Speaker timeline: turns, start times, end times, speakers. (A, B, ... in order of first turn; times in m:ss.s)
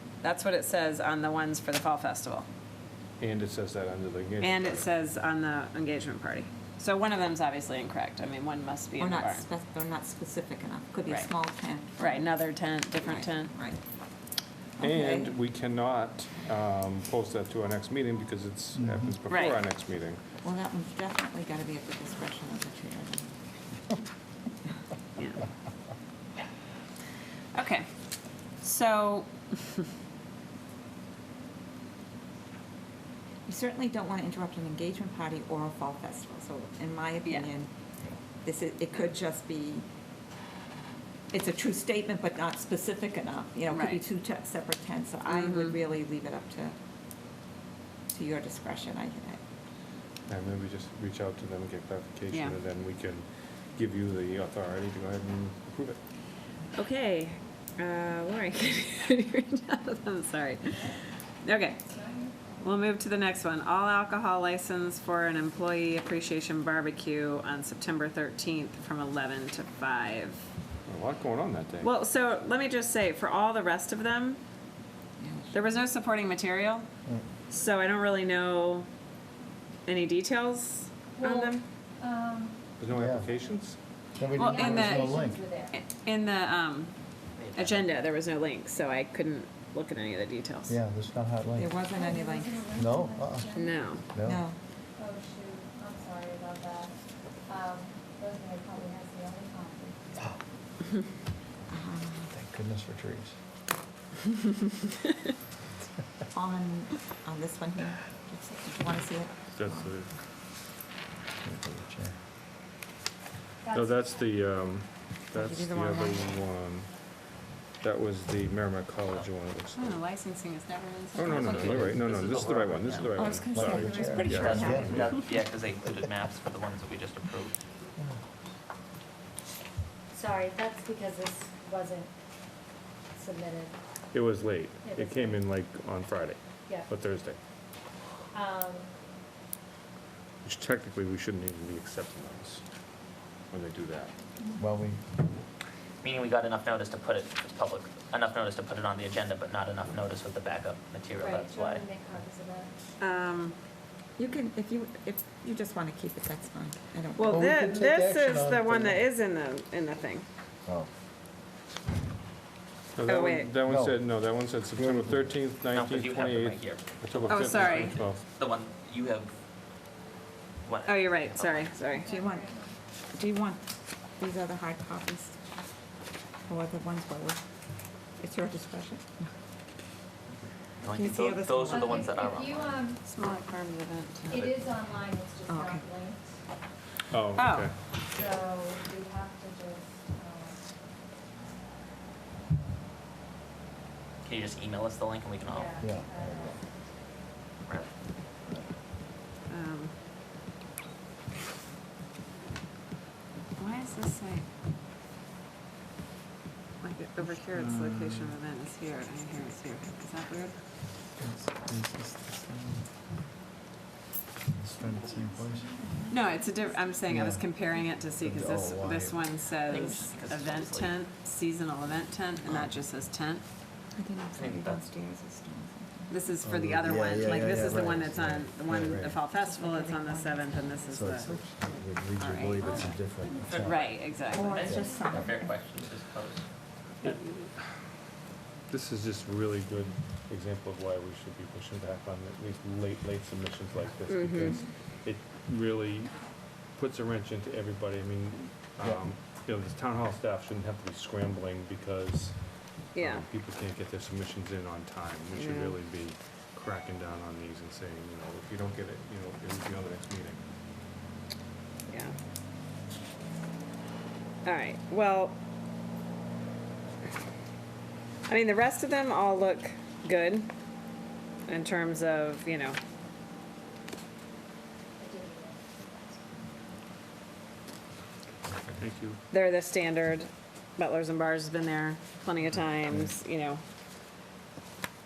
0:00.2-0:02.5 A
0:03.2-0:04.9 B
0:04.4-0:09.4 A
0:09.0-0:12.3 C
0:11.1-0:11.3 A
0:12.0-0:13.5 A
0:13.0-0:13.8 C
0:14.8-0:15.3 C
0:14.8-0:20.2 B
0:18.8-0:19.1 D
0:19.3-0:19.6 A
0:20.4-0:23.3 C
0:27.5-0:27.9 A
0:28.6-0:29.6 A
0:33.4-0:37.7 C
0:37.2-0:37.5 A
0:38.4-0:39.8 C
0:41.3-0:46.8 C
0:43.7-0:44.0 A
0:45.3-0:45.8 A
0:48.1-0:49.4 C
0:50.3-0:56.0 B
0:52.3-0:52.6 A
0:56.7-1:01.8 A
1:01.9-1:02.5 E
1:02.6-1:10.4 A
1:10.8-1:11.9 B
1:11.8-1:14.4 A
1:15.2-1:15.8 C
1:15.5-1:16.9 A
1:17.5-1:18.9 A
1:19.8-1:21.6 A
1:21.2-1:22.7 E
1:22.8-1:23.8 B
1:22.9-1:23.3 D
1:24.2-1:25.5 D
1:24.3-1:25.8 E
1:24.3-1:25.2 A
1:25.7-1:26.9 A
1:27.4-1:27.9 F
1:27.5-1:30.8 A
1:30.7-1:31.8 D
1:31.6-1:32.8 C
1:31.9-1:34.0 E
1:32.8-1:33.5 D
1:33.5-1:34.0 A
1:34.1-1:34.4 D
1:34.2-1:34.6 C
1:35.0-1:40.0 E
1:41.7-1:42.3 C
1:42.3-1:43.3 D
1:46.3-1:49.9 C
1:49.6-1:50.1 B
1:51.4-1:52.2 D
1:53.6-1:54.2 E
1:53.7-1:56.9 B
1:55.3-1:56.3 C
1:57.8-2:00.0 B
1:59.7-2:01.9 A
2:01.1-2:05.1 B
2:01.3-2:03.4 F
2:03.1-2:05.1 C
2:03.5-2:05.2 D
2:04.2-2:07.6 F
2:10.1-2:12.1 E
2:13.1-2:13.8 E
2:14.1-2:17.4 B
2:14.8-2:15.4 E
2:18.3-2:18.9 E
2:20.4-2:22.6 B
2:23.5-2:24.1 B
2:24.6-2:25.0 D
2:26.0-2:31.8 F
2:31.2-2:32.8 E
2:33.0-2:33.6 A
2:34.2-2:37.4 C
2:37.2-2:40.2 A
2:37.3-2:39.0 D
2:43.0-2:48.2 B
2:43.0-2:43.5 A
2:43.6-2:44.1 D
2:44.7-2:45.4 D
2:45.7-2:49.3 F
2:47.3-2:47.9 A
2:50.6-2:51.7 F
2:50.8-2:52.1 A
2:51.9-2:52.8 E
2:52.0-2:52.5 C
2:53.1-2:53.7 C
2:54.2-2:55.4 C
2:56.5-2:57.4 C
2:58.2-2:59.3 C
3:00.8-3:02.8 F
3:00.9-3:02.1 C
3:01.7-3:03.0 E
3:03.0-3:04.5 A
3:04.3-3:06.3 E
3:05.5-3:05.8 C
3:07.1-3:07.7 B
3:07.4-3:07.7 A
3:08.1-3:10.6 E
3:14.2-3:15.8 F
3:15.5-3:16.6 E
3:15.8-3:16.6 D
3:19.5-3:19.9 A
3:23.6-3:24.4 A
3:26.8-3:30.5 A
3:31.2-3:32.8 D
3:34.5-3:35.7 D
3:34.8-3:36.5 C
3:36.1-3:43.4 A
3:37.1-3:37.4 D
3:38.2-3:39.2 D
3:39.6-3:40.9 F
3:43.9-3:46.1 C
3:44.3-3:44.8 F
3:46.1-3:51.3 A
3:46.4-3:49.2 D
3:49.2-3:51.5 C
3:50.9-3:53.8 D
3:52.2-3:52.9 A
3:52.6-3:52.9 E
3:53.4-3:56.4 F
3:53.6-3:54.5 A
3:54.3-3:55.5 C
3:57.0-3:57.5 B
3:58.7-4:06.1 B
4:04.1-4:04.6 A
4:06.7-4:12.4 B
4:12.9-4:13.2 A
4:12.9-4:20.4 B
4:15.3-4:15.8 A
4:21.9-4:22.1 A
4:24.4-4:25.4 A
4:28.3-4:30.5 A
4:31.5-4:32.8 A
4:35.0-4:36.5 E
4:38.7-4:39.2 B
4:39.3-4:43.6 A